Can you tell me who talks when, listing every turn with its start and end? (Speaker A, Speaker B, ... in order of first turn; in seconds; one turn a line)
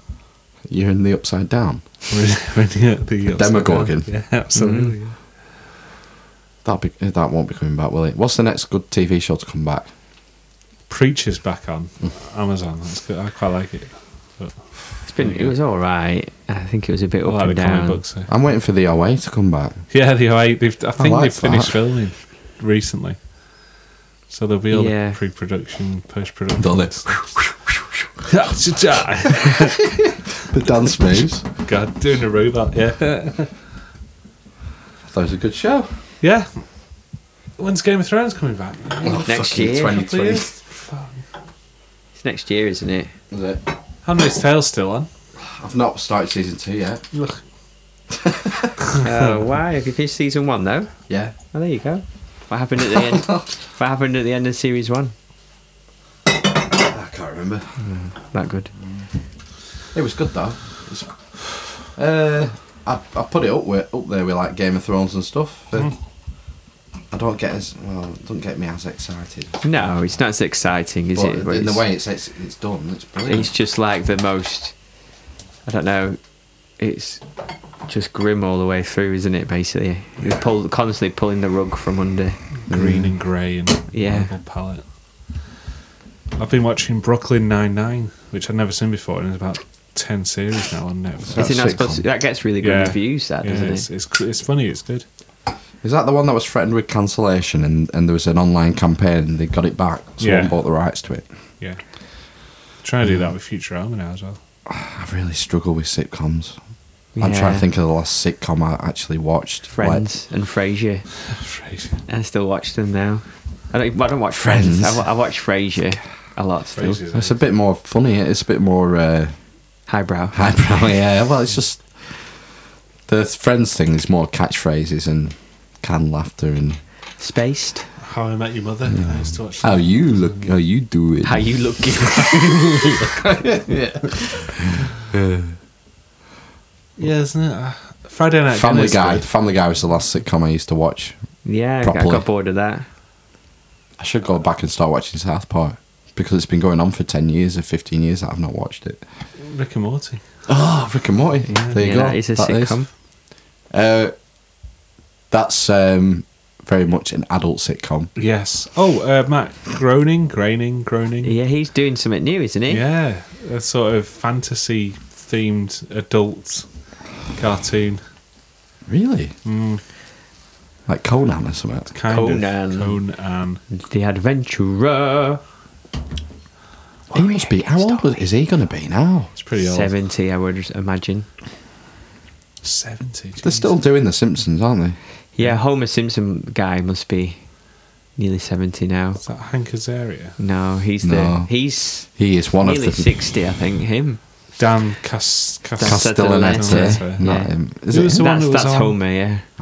Speaker A: 0.7-1.9
Speaker B: 2.1-5.2
Speaker A: 3.3-4.1
Speaker C: 4.5-5.0
Speaker A: 6.6-9.9
Speaker B: 10.9-15.5
Speaker C: 15.1-18.0
Speaker B: 17.2-18.3
Speaker A: 18.3-19.9
Speaker B: 19.9-23.3
Speaker A: 21.0-21.8
Speaker B: 24.3-27.2
Speaker C: 24.7-25.2
Speaker A: 26.6-27.8
Speaker B: 28.3-30.0
Speaker A: 29.5-31.4
Speaker B: 31.1-33.6
Speaker A: 35.0-36.0
Speaker B: 36.2-36.6
Speaker B: 37.6-41.2
Speaker A: 39.0-40.5
Speaker C: 39.2-40.0
Speaker C: 42.1-43.1
Speaker A: 43.3-43.6
Speaker B: 44.0-45.1
Speaker A: 45.6-47.0
Speaker B: 47.1-47.4
Speaker A: 48.1-48.8
Speaker C: 49.0-51.0
Speaker A: 51.1-51.3
Speaker C: 51.5-55.1
Speaker A: 52.9-53.5
Speaker A: 56.7-57.8
Speaker C: 57.8-58.7
Speaker A: 59.9-65.9
Speaker A: 67.1-69.6
Speaker C: 69.6-71.8
Speaker A: 71.1-73.5
Speaker C: 73.2-74.8
Speaker C: 75.6-76.2
Speaker C: 76.8-77.2
Speaker C: 77.8-82.4
Speaker B: 82.7-84.8
Speaker A: 82.7-83.1
Speaker C: 83.9-84.3
Speaker B: 86.4-91.8
Speaker A: 91.3-92.0
Speaker C: 91.3-93.9
Speaker B: 92.6-95.0
Speaker A: 95.8-101.2
Speaker B: 100.2-100.6
Speaker B: 102.8-104.4
Speaker A: 104.7-106.6
Speaker C: 107.2-107.7
Speaker A: 107.2-110.0
Speaker C: 109.7-111.1
Speaker B: 111.3-112.0
Speaker C: 112.1-117.0
Speaker A: 114.3-115.0
Speaker B: 116.7-117.4
Speaker A: 117.1-119.4
Speaker C: 119.9-120.6
Speaker A: 120.3-122.4
Speaker A: 123.1-126.8
Speaker C: 127.2-127.9
Speaker B: 128.0-130.5
Speaker A: 128.9-131.7
Speaker C: 131.2-133.7
Speaker A: 133.4-134.3
Speaker A: 134.9-135.6
Speaker B: 137.0-139.3
Speaker A: 138.5-142.2
Speaker C: 141.4-142.8
Speaker A: 144.0-149.0
Speaker B: 149.4-150.2
Speaker A: 150.5-153.0
Speaker C: 151.5-152.9
Speaker A: 153.7-154.1
Speaker A: 155.3-158.1
Speaker B: 158.2-161.3
Speaker C: 161.2-162.8
Speaker B: 162.7-168.0
Speaker A: 168.9-169.3
Speaker B: 169.4-169.8
Speaker A: 170.9-171.9
Speaker B: 171.9-173.6
Speaker C: 172.1-173.0
Speaker C: 173.7-175.4
Speaker A: 177.1-179.3
Speaker C: 177.1-178.2
Speaker B: 179.3-179.9
Speaker C: 179.6-181.3
Speaker B: 182.6-183.8
Speaker A: 183.4-185.0
Speaker C: 185.3-187.5
Speaker C: 188.1-189.2
Speaker B: 189.2-190.4
Speaker C: 190.4-194.2
Speaker A: 191.0-191.5
Speaker A: 192.0-193.2
Speaker B: 194.6-199.0
Speaker C: 195.8-199.4
Speaker A: 195.8-198.2